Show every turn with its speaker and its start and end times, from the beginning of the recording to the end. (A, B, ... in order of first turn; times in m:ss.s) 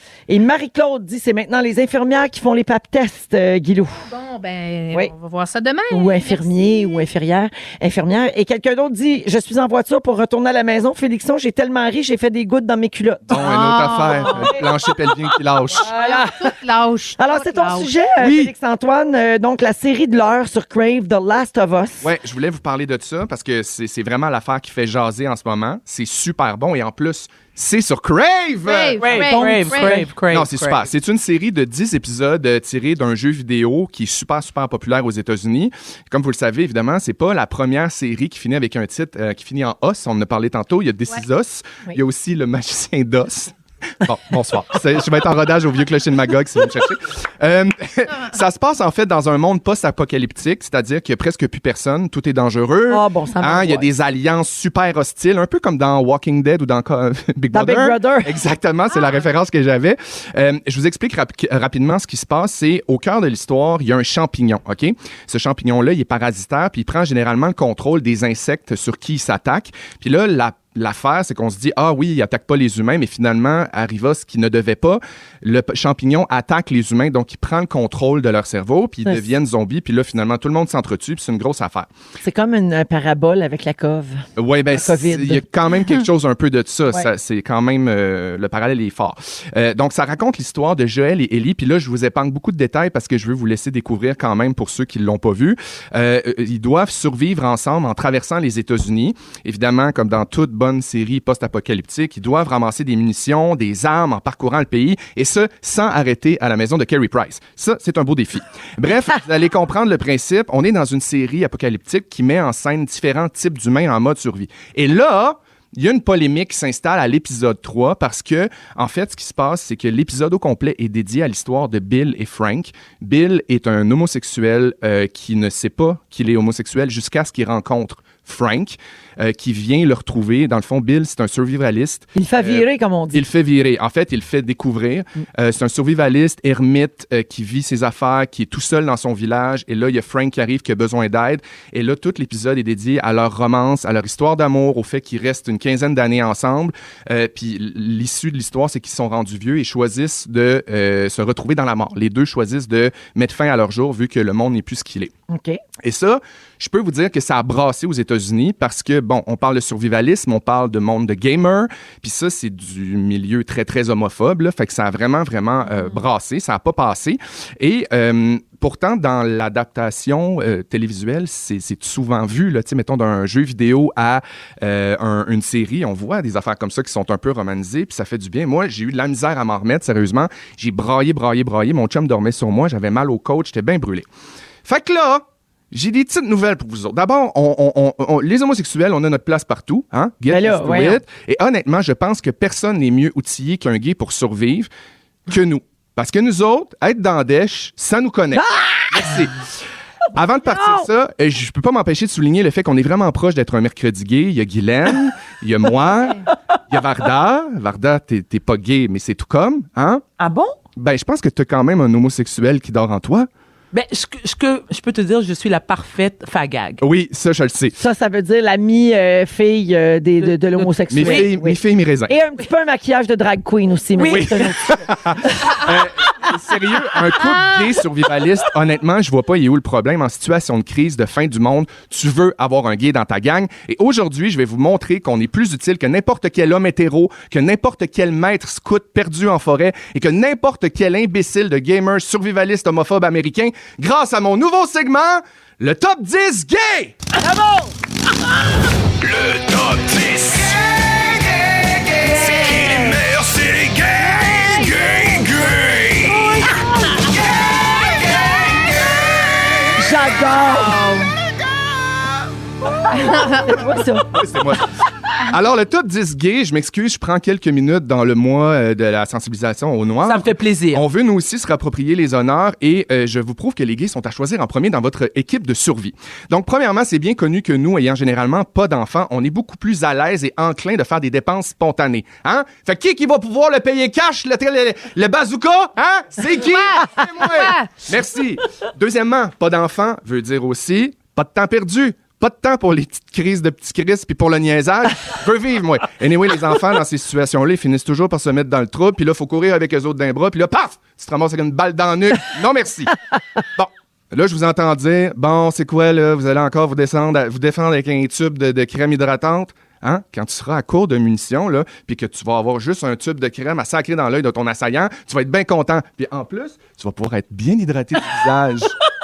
0:00.3-0:04.0 A
0:04.0-0:07.0 B
0:05.9-0:13.4 A
0:13.3-0:15.9 C
0:13.3-0:14.5 B
0:15.8-0:17.9 B
0:15.8-0:16.5 A
0:17.2-0:22.1 A
0:18.2-0:18.5 C
0:22.0-0:29.1 C
0:28.6-0:30.0 B
0:29.0-0:30.8 D
0:29.2-0:30.1 A
0:30.3-1:21.9 C
0:52.9-0:53.9 A
0:57.5-0:58.3 A
1:22.2-1:25.4 A
1:24.4-2:35.1 C
2:12.1-2:13.2 A
2:35.3-2:35.6 A
2:35.8-3:04.1 C
3:04.6-3:14.7 C
3:10.3-3:11.0 A
3:15.3-3:19.5 C
3:18.3-3:19.1 A
3:20.1-3:30.0 C
3:20.5-3:20.9 A
3:30.2-3:30.5 D
3:30.8-3:33.3 C
3:33.7-3:36.8 D
3:36.8-3:37.8 C
3:37.8-3:45.6 A
3:40.2-3:41.3 D
3:40.9-3:42.2 C
3:44.0-3:44.3 D
3:44.0-4:07.0 C
4:07.2-4:07.7 A
4:09.0-4:19.8 E
4:12.3-4:12.7 A
4:19.8-4:20.9 A
4:20.7-4:21.1 B
4:22.9-4:24.1 A
4:23.1-4:23.4 B
4:24.1-4:24.7 C
4:25.2-5:02.9 C
4:30.0-4:30.8 D
4:46.4-4:47.7 B
5:03.5-5:18.7 C